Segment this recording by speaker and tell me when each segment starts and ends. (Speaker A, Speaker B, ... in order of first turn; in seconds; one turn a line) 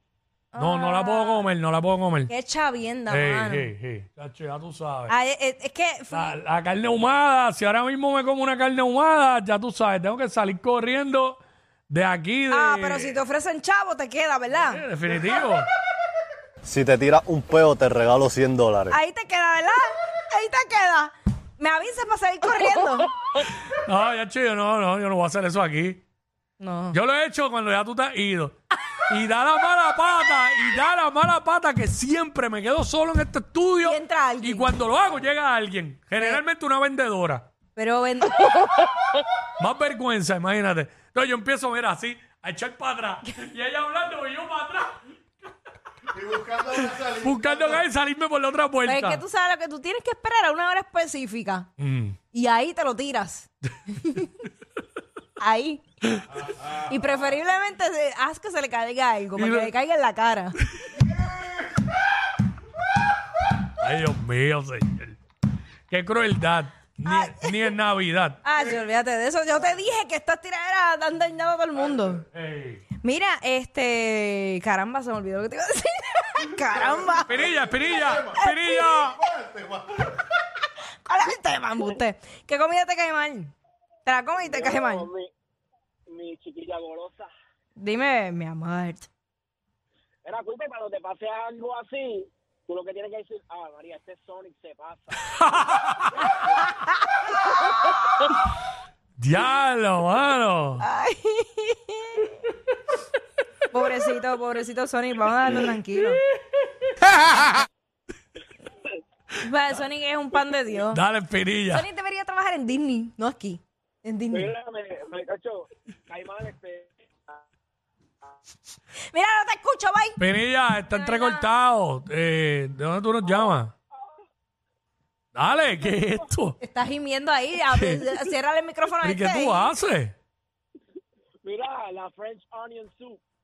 Speaker A: 0.5-1.4
Speaker B: 0.6-2.3
Speaker A: 2.3-3.7
Speaker B: 3.1-5.2
Speaker A: 5.1-6.3
Speaker B: 6.1-13.2
Speaker A: 12.5-14.8
Speaker B: 14.6-15.7
Speaker C: 16.6-19.0
Speaker A: 18.9-23.1
Speaker B: 23.7-26.0
Speaker A: 26.6-27.0
Speaker B: 26.9-28.6
Speaker B: 29.1-37.5
Speaker A: 33.8-34.7
Speaker A: 37.8-38.9
Speaker B: 39.6-45.0
Speaker B: 46.4-49.2
Speaker A: 48.9-51.7
Speaker B: 51.8-52.2
Speaker A: 52.3-54.3
Speaker A: 55.4-55.8
Speaker A: 56.6-60.6
Speaker B: 59.4-59.7
Speaker B: 63.8-65.2
Speaker B: 65.9-68.4
Speaker A: 67.0-67.5
Speaker A: 68.4-72.2
Speaker B: 72.3-72.8
Speaker A: 73.0-77.5
Speaker B: 77.2-79.2
Speaker A: 78.2-79.2
Speaker A: 81.0-83.5
Speaker A: 84.1-85.1
Speaker D: 84.4-85.3
Speaker D: 86.1-87.3
Speaker A: 87.8-89.1
Speaker D: 90.2-95.8
Speaker B: 95.4-96.2
Speaker B: 99.2-100.8
Speaker A: 100.8-102.2
Speaker A: 103.7-106.2
Speaker A: 109.4-111.0
Speaker B: 110.9-111.9
Speaker A: 111.7-114.5
Speaker D: 114.3-117.4
Speaker A: 119.1-120.2
Speaker B: 120.2-123.7
Speaker A: 120.8-121.5
Speaker D: 123.2-124.2
Speaker B: 125.3-126.6
Speaker D: 125.8-126.1
Speaker A: 126.6-129.7
Speaker B: 127.7-128.2
Speaker B: 129.0-130.2
Speaker D: 131.4-133.2